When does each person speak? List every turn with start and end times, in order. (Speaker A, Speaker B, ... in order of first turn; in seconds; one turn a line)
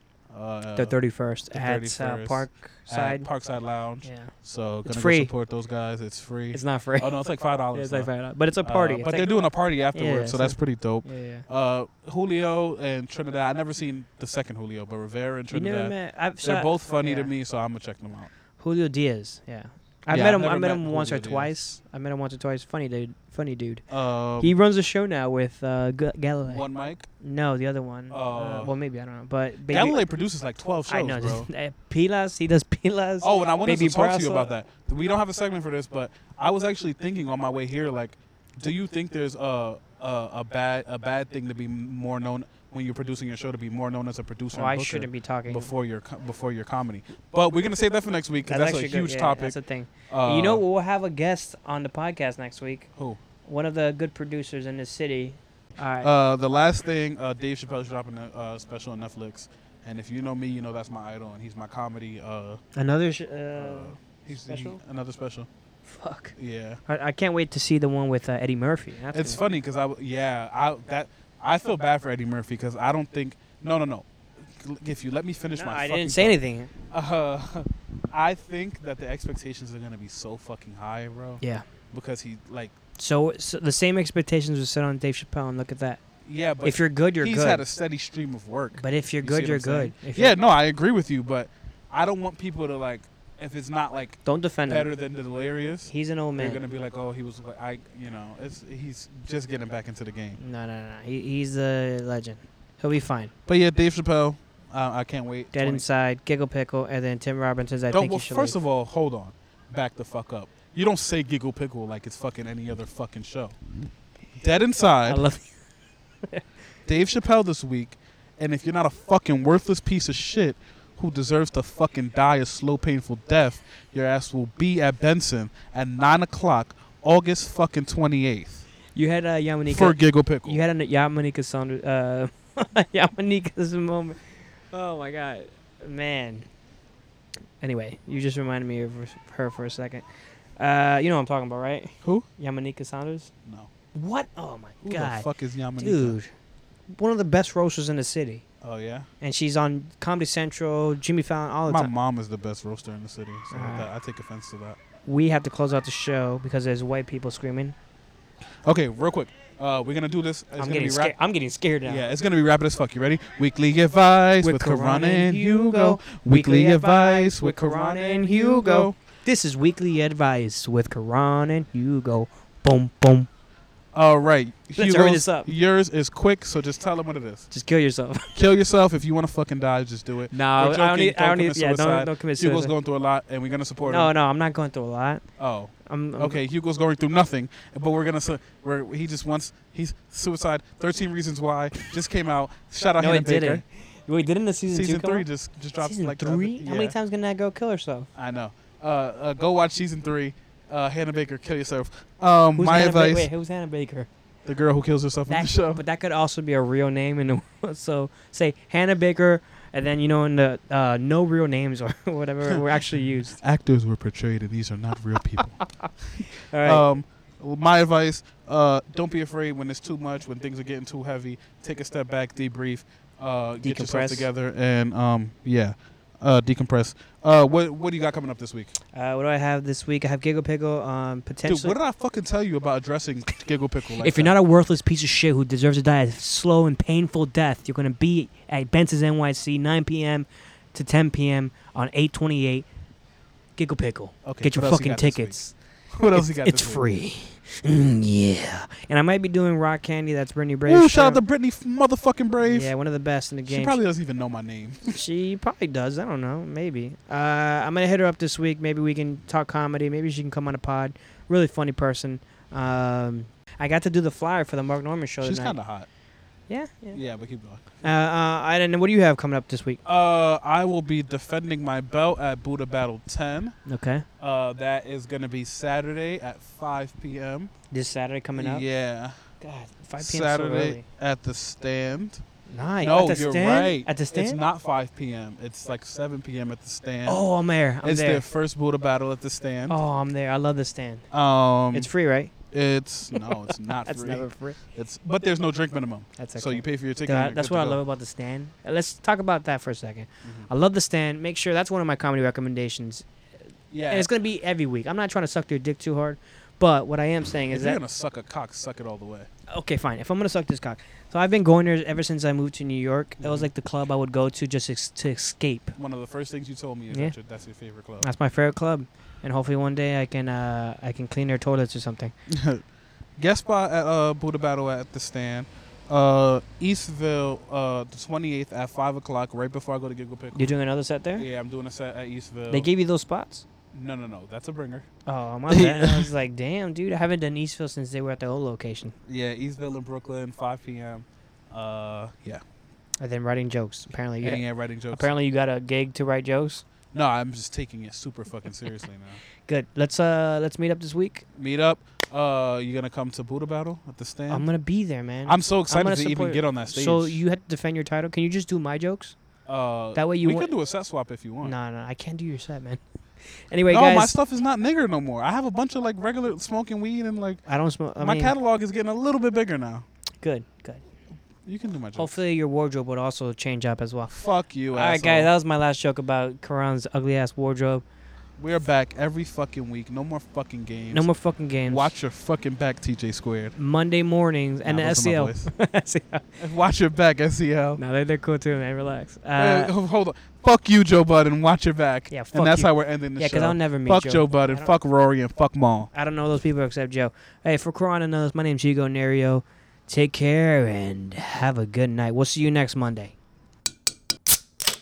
Speaker A: 0.3-1.0
Speaker B: 0.8-3.3
Speaker A: 1.5-18.3
Speaker B: 4.0-4.3
Speaker B: 4.8-5.3
Speaker B: 6.5-7.1
Speaker B: 7.7-11.5
Speaker B: 15.5-17.3
Speaker B: 18.6-23.8
Speaker A: 20.1-21.5
Speaker A: 23.9-24.5
Speaker B: 24.4-26.7
Speaker A: 26.4-27.1
Speaker B: 27.2-30.0
Speaker A: 28.1-28.7
Speaker A: 29.7-31.5
Speaker B: 30.9-34.5
Speaker A: 33.2-49.6
Speaker B: 44.5-45.7
Speaker B: 48.5-52.9
Speaker A: 50.1-50.6
Speaker B: 53.5-56.1
Speaker A: 56.0-62.6
Speaker B: 62.8-64.8
Speaker A: 63.5-65.5
Speaker B: 65.9-66.3
Speaker A: 66.4-66.8
Speaker B: 66.9-69.4
Speaker A: 69.1-81.4
Speaker B: 75.5-76.7
Speaker A: 81.9-82.7
Speaker B: 83.0-86.0
Speaker A: 86.2-100.4
Speaker B: 86.6-87.6
Speaker B: 88.8-90.4
Speaker B: 94.2-94.9
Speaker B: 95.9-96.6
Speaker B: 100.4-103.3
Speaker A: 103.5-105.8
Speaker B: 105.5-108.6
Speaker A: 107.9-113.6
Speaker A: 114.3-115.2
Speaker B: 115.1-115.5
Speaker A: 116.9-128.7
Speaker B: 128.9-134.2
Speaker A: 129.7-130.6
Speaker B: 134.7-136.5
Speaker B: 137.6-140.1
Speaker B: 140.6-143.3
Speaker A: 143.4-143.7
Speaker B: 143.9-145.2
Speaker A: 144.8-146.2
Speaker B: 145.8-146.3
Speaker B: 146.9-148.4
Speaker A: 148.6-149.1
Speaker B: 149.2-151.9
Speaker A: 151.7-154.8
Speaker B: 153.5-153.9
Speaker B: 155.1-157.8
Speaker A: 158.7-161.1
Speaker B: 160.6-162.0
Speaker A: 161.8-169.0
Speaker B: 164.4-173.3
Speaker A: 173.9-177.5
Speaker B: 174.8-175.5
Speaker B: 177.5-178.3
Speaker A: 178.3-184.1
Speaker B: 180.3-182.7
Speaker B: 183.9-185.2
Speaker A: 185.4-193.6
Speaker B: 185.8-186.4
Speaker B: 193.0-195.3
Speaker A: 194.7-197.0
Speaker B: 195.8-198.1
Speaker A: 198.2-203.3
Speaker B: 202.6-204.1
Speaker A: 204.4-205.8
Speaker B: 205.3-213.4
Speaker A: 213.4-215.6
Speaker B: 215.8-216.8
Speaker A: 216.2-228.8
Speaker B: 223.6-224.3
Speaker B: 228.9-231.8
Speaker A: 231.4-234.3
Speaker B: 234.0-242.7
Speaker B: 243.6-245.6
Speaker A: 244.2-245.4
Speaker A: 245.9-246.9
Speaker B: 246.1-251.2
Speaker A: 250.7-252.7
Speaker B: 252.4-253.8
Speaker A: 253.5-255.0
Speaker B: 254.9-265.6
Speaker A: 265.2-265.9
Speaker B: 266.5-267.0
Speaker A: 266.9-267.9
Speaker B: 267.8-269.8
Speaker A: 269.9-273.6
Speaker B: 273.7-274.1
Speaker A: 274.2-277.5
Speaker B: 277.7-278.6
Speaker A: 278.3-279.2
Speaker B: 279.4-280.9
Speaker A: 280.0-282.2
Speaker B: 282.5-284.4
Speaker A: 282.8-287.2
Speaker B: 287.1-288.2
Speaker A: 287.8-289.8
Speaker B: 289.7-291.1
Speaker A: 291.1-291.9
Speaker B: 291.7-292.3
Speaker A: 292.5-297.8
Speaker B: 293.1-294.6
Speaker B: 296.2-303.1
Speaker A: 300.2-300.5
Speaker A: 303.7-304.1
Speaker B: 303.9-307.8
Speaker A: 307.5-309.3
Speaker B: 309.5-315.8
Speaker A: 313.2-313.5
Speaker A: 315.8-318.1
Speaker B: 318.0-322.1
Speaker A: 322.3-322.6
Speaker A: 323.2-330.5
Speaker B: 330.4-331.3
Speaker A: 331.2-332.7
Speaker B: 332.5-333.5
Speaker A: 333.7-334.9
Speaker B: 335.1-338.9
Speaker A: 335.5-336.1
Speaker A: 339.1-342.4
Speaker B: 343.0-346.6
Speaker A: 344.2-345.1
Speaker A: 346.9-349.2
Speaker B: 349.5-351.2
Speaker A: 351.4-354.5
Speaker B: 354.3-359.1
Speaker A: 355.2-357.2
Speaker A: 359.5-361.5
Speaker B: 359.9-360.5
Speaker B: 361.4-362.8
Speaker B: 363.4-364.1
Speaker A: 363.7-367.4
Speaker B: 367.5-368.4
Speaker A: 368.0-369.9
Speaker B: 370.2-370.8
Speaker A: 371.4-372.2
Speaker B: 372.0-374.1
Speaker A: 374.1-375.3
Speaker B: 374.7-377.8
Speaker A: 378.4-381.1
Speaker B: 380.9-382.0
Speaker A: 381.6-383.5
Speaker B: 383.6-386.3
Speaker A: 384.6-385.5
Speaker A: 386.4-387.8
Speaker B: 387.8-389.7
Speaker A: 389.4-395.9
Speaker B: 392.1-394.7
Speaker B: 395.9-403.1